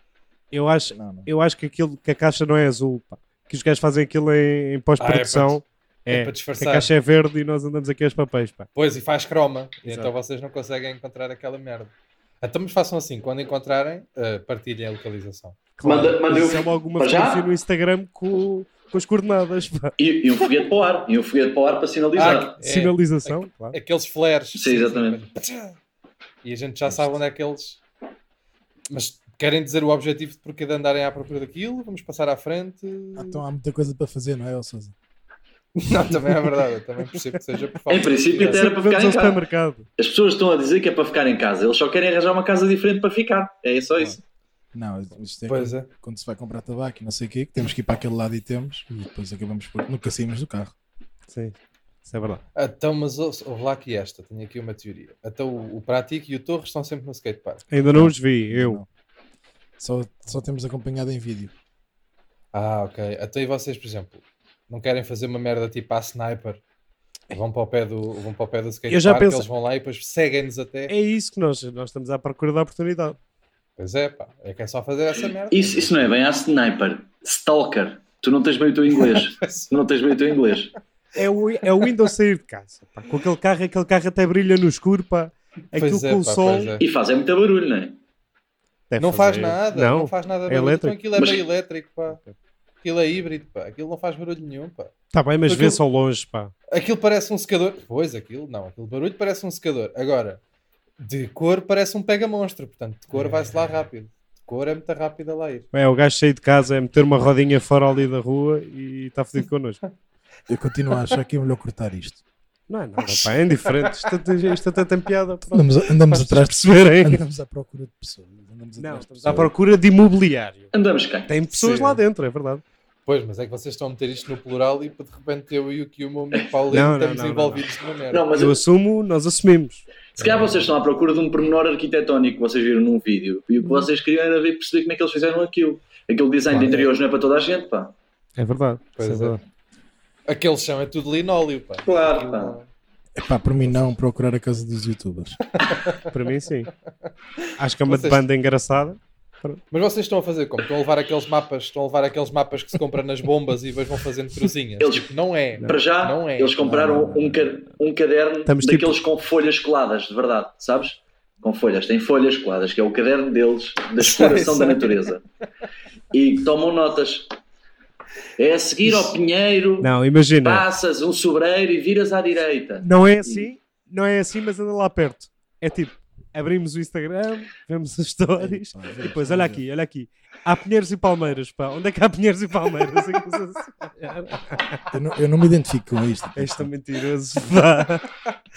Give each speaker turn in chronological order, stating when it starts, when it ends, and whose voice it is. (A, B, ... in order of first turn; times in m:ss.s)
0:00.5-0:08.7 A
0:00.9-0:01.3 B
0:05.0-0:06.9 C
0:08.8-0:15.6 C
0:09.9-0:10.1 A
0:15.8-0:20.0 A
0:15.8-0:17.5 D
0:20.0-0:22.6 D
0:22.2-0:25.8 C
0:22.6-0:23.8 A
0:24.6-0:25.2 D
0:26.4-0:27.8 C
0:26.9-0:27.2 B
0:28.9-0:33.4 C
0:33.2-0:35.0 B
0:35.8-0:38.7 C
0:37.9-0:39.4 D
0:38.4-0:39.9 A
0:40.0-0:44.2 D
0:44.7-0:50.7 B
0:45.5-0:45.9 C
0:51.3-0:52.4 A
0:52.6-0:57.7 C
0:57.7-0:58.8 A
0:57.9-0:58.9 B
0:59.8-1:01.5 B
1:02.5-1:06.6 C
1:07.3-1:10.9 C
1:08.9-1:09.5 A
1:10.9-1:13.2 A
1:13.8-1:16.1 C
1:15.5-1:20.7 D
1:21.2-1:26.8 A
1:25.8-1:26.8 C
1:26.8-1:28.0 D
1:28.9-1:31.0 A
1:29.0-1:32.2 C
1:31.2-1:31.4 D
1:32.8-1:34.9 C
1:35.1-1:36.5 A
1:35.5-1:35.8 C
1:36.7-1:40.4 C
1:41.0-1:45.7 C
1:45.7-1:49.8 A
1:50.5-1:52.2 B
1:52.7-1:57.2 A
1:53.2-1:54.2 C
1:55.5-1:59.5 B
1:58.8-2:00.7 A
2:00.7-2:02.0 D
2:01.3-2:02.6 A
2:03.1-2:08.3 C
2:06.7-2:07.6 A
2:08.1-2:08.6 D
2:08.3-2:09.8 A
2:10.2-2:17.9 D
2:10.2-2:10.7 C
2:16.5-2:16.9 C
2:18.4-2:19.4 A
2:19.0-2:19.4 C
2:20.3-2:22.7 C
2:21.8-2:22.6 D
2:23.2-2:25.4 B
2:25.6-2:26.0 C
2:26.1-2:26.7 A
2:27.6-2:29.6 A
2:27.9-2:28.2 C
2:29.7-2:37.3 C
2:34.8-2:35.1 D
2:35.6-2:45.2 D
2:38.5-2:39.0 A
2:44.0-2:45.1 C
2:46.1-2:47.3 D
2:48.4-2:49.9 D
2:49.8-2:50.6 A
2:50.4-2:53.5 D
2:52.8-3:04.8 A
2:58.4-2:59.6 B
3:04.9-3:06.7 B
3:06.4-3:08.1 A